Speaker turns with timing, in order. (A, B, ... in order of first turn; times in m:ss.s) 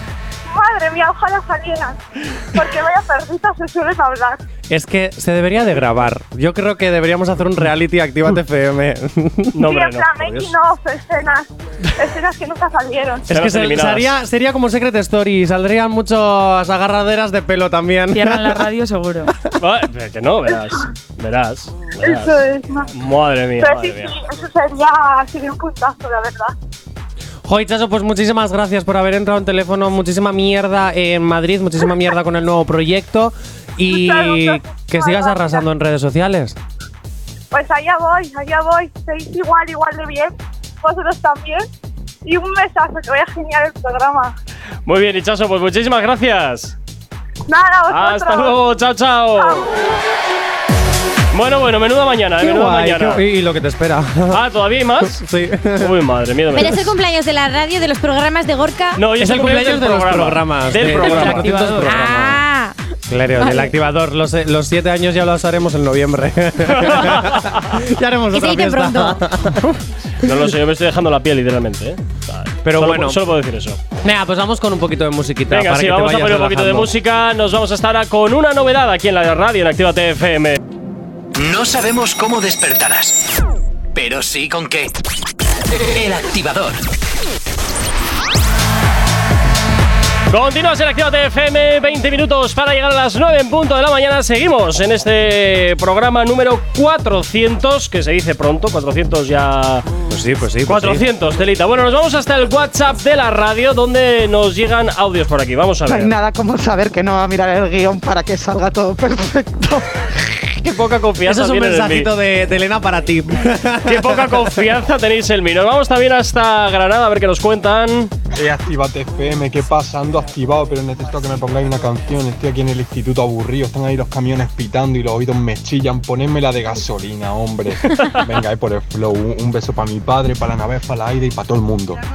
0:00.5-0:02.0 A
0:02.6-0:04.4 A
0:04.7-0:09.6 B
0:09.5-0:10.5 C
0:09.7-0:13.3 A
0:13.3-0:18.7 B
0:13.3-0:14.1 C
0:18.1-0:19.3 D
0:19.6-0:22.4 C
0:22.0-0:22.9 A
0:22.9-0:24.1 C
0:23.6-0:26.5 A
0:27.5-0:36.6 B
0:33.9-0:35.6 A
0:37.5-0:41.7 A
0:42.2-0:44.3 A
0:44.9-0:46.8 C
0:47.5-0:48.6 A
0:47.9-0:49.6 C
0:49.4-0:49.7 A
0:51.3-0:53.2 C
0:52.4-0:54.4 B
0:54.3-0:55.2 C
0:55.0-0:55.9 B
0:55.8-0:56.9 C
0:56.5-0:59.0 E
0:59.0-1:01.8 C
0:59.2-1:02.4 B
1:01.0-1:01.8 D
1:01.8-1:02.8 E
1:03.1-1:10.4 B
1:06.7-1:07.6 C
1:08.3-1:09.2 E
1:10.2-1:13.8 C
1:12.6-1:13.2 B
1:14.0-1:16.9 B
1:15.5-1:20.6 C
1:21.4-1:23.2 F
1:24.0-1:24.9 F
1:25.8-1:26.8 F
1:30.3-1:39.9 C
1:40.1-1:41.0 B
1:40.7-1:46.1 C
1:45.9-1:50.1 G
1:50.6-1:52.1 C
1:51.2-1:54.5 B
1:53.8-1:58.1 C
1:58.4-2:12.0 H